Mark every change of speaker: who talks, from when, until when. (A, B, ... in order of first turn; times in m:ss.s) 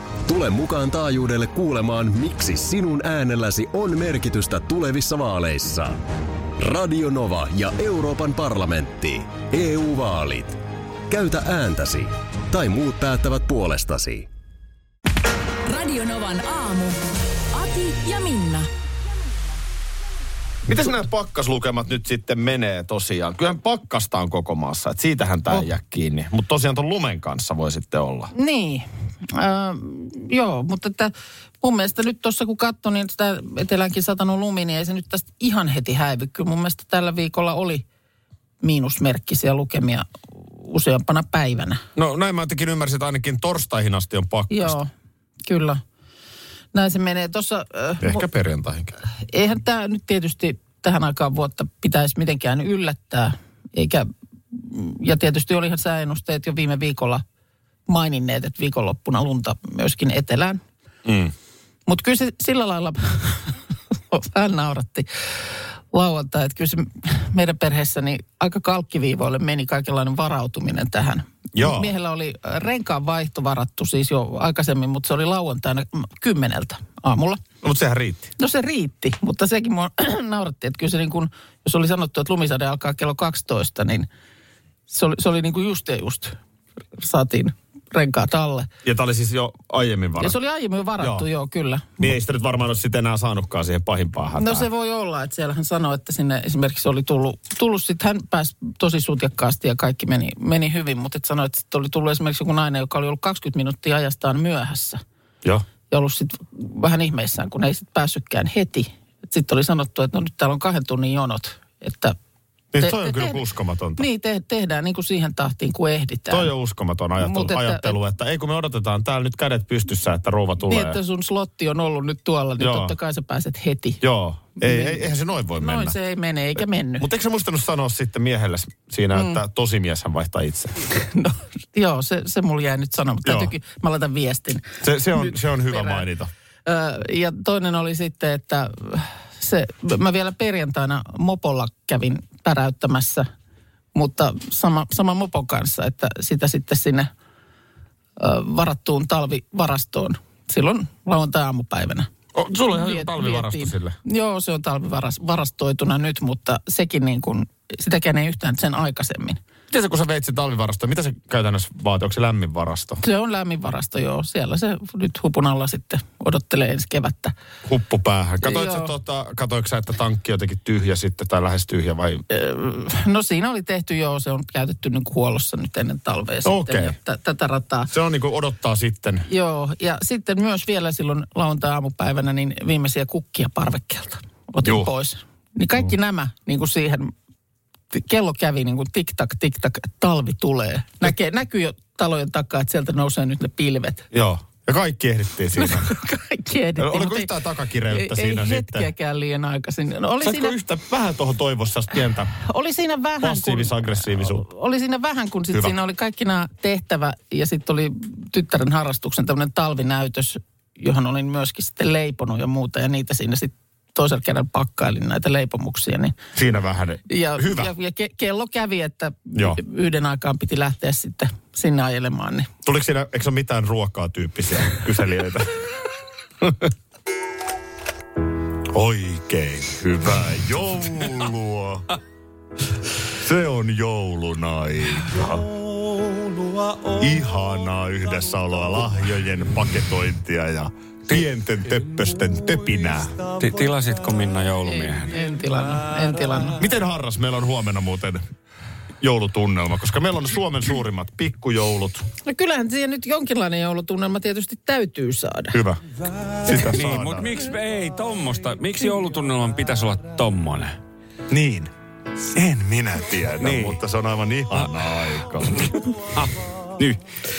0:00.3-0:06.0 A
0:06.6-0:10.6 A
0:11.1-0:14.3 A
0:15.6-0:17.0 B
0:17.5-0:18.7 B
0:20.7-0:28.3 C
0:28.3-0:37.8 D
0:38.6-0:41.8 D
0:42.0-0:44.8 C
0:44.5-0:44.9 D
0:45.5-0:45.8 D
0:46.7-0:48.3 D
0:48.0-0:49.0 C
0:49.2-0:57.2 D
0:57.9-1:00.6 D
1:01.9-1:03.5 D
1:04.1-1:17.4 D
1:11.6-1:11.9 C
1:17.6-1:18.3 C
1:18.4-1:24.1 D
1:24.9-1:26.4 D
1:27.0-1:28.7 D
1:28.8-1:30.4 C
1:30.2-1:32.0 D
1:31.0-1:31.3 C
1:32.0-1:34.7 C
1:34.4-1:45.0 D
1:45.9-1:52.2 D
1:52.7-1:54.1 C
1:52.8-1:53.4 D
1:54.0-1:56.5 D
1:56.3-2:01.0 C
1:57.2-1:58.0 D
2:00.6-2:04.0 D
2:02.6-2:02.9 C
2:04.0-2:06.0 C
2:04.6-2:07.1 D
2:07.0-2:10.8 C
2:11.0-2:16.0 D
2:13.2-2:13.5 C
2:14.8-2:16.3 C
2:16.7-2:23.3 D
2:24.0-2:27.1 D
2:28.2-2:32.1 D
2:32.3-2:34.0 C
2:32.7-2:39.4 D
2:39.7-2:43.0 C
2:43.0-2:47.3 D
2:47.6-2:52.2 C
2:48.4-2:48.9 D
2:52.3-2:57.9 D
2:56.4-2:57.0 C
2:57.9-2:59.3 C
2:59.3-3:07.1 D
3:04.6-3:04.9 C
3:07.9-3:14.0 D
3:14.1-3:15.9 C
3:15.6-3:17.3 D
3:16.8-3:18.9 C
3:17.9-3:20.6 D
3:20.2-3:22.3 C
3:22.4-3:36.2 D
3:23.2-3:24.4 C
3:25.5-3:25.8 C
3:36.4-3:37.7 C
3:37.1-3:42.5 D
3:39.3-3:39.6 C
3:42.6-3:45.6 C
3:46.4-3:46.7 C
3:48.7-3:51.9 C
3:53.1-3:55.5 C
3:56.9-4:03.3 C
4:03.3-4:05.1 E
4:04.7-4:06.6 D
4:06.6-4:08.2 C
4:09.0-4:12.1 C
4:12.2-4:15.6 D
4:15.5-4:15.8 C
4:16.4-4:17.3 C
4:16.5-4:20.8 E
4:21.3-4:21.7 C
4:22.3-4:25.8 C
4:23.4-4:23.8 E
4:26.7-4:27.0 C